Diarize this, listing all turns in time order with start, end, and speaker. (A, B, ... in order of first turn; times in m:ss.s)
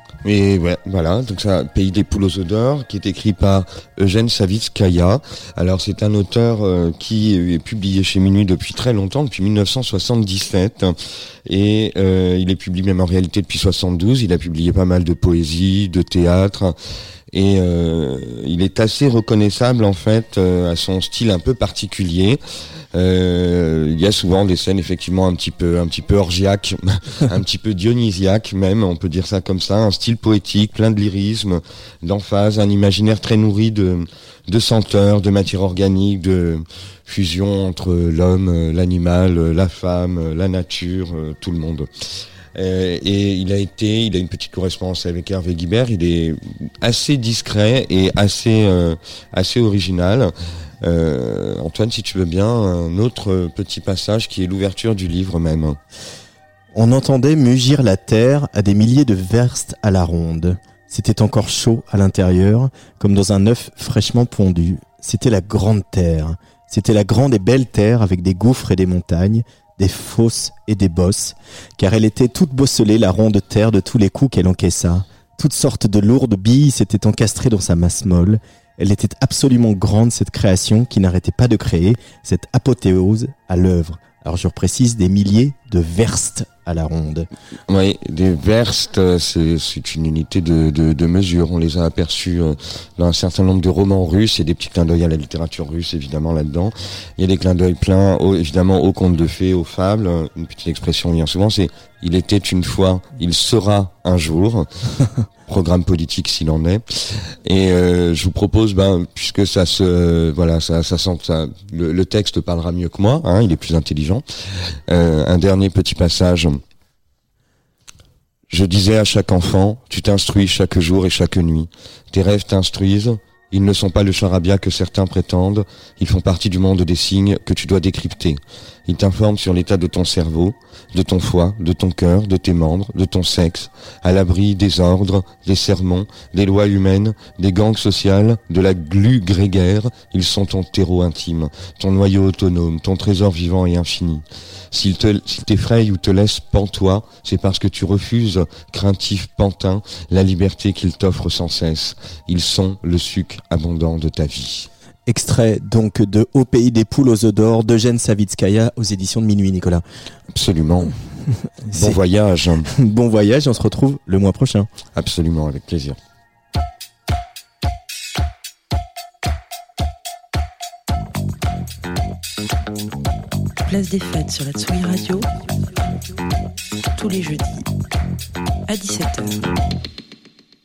0:00.2-0:16.8 A
0:17.3-0:22.4 A
0:22.9-0:41.9 A
0:42.6-0:55.8 A
0:56.7-1:27.3 B
1:27.7-1:44.7 A
1:45.5-1:56.6 A
1:58.5-2:34.7 A
2:35.1-2:39.8 B
2:40.3-2:41.0 A
2:41.6-2:42.0 B
2:41.7-2:42.7 A
2:42.6-2:44.7 B
2:45.0-2:46.0 A
2:53.6-2:56.1 C
2:56.9-2:57.7 C
2:58.7-2:59.5 C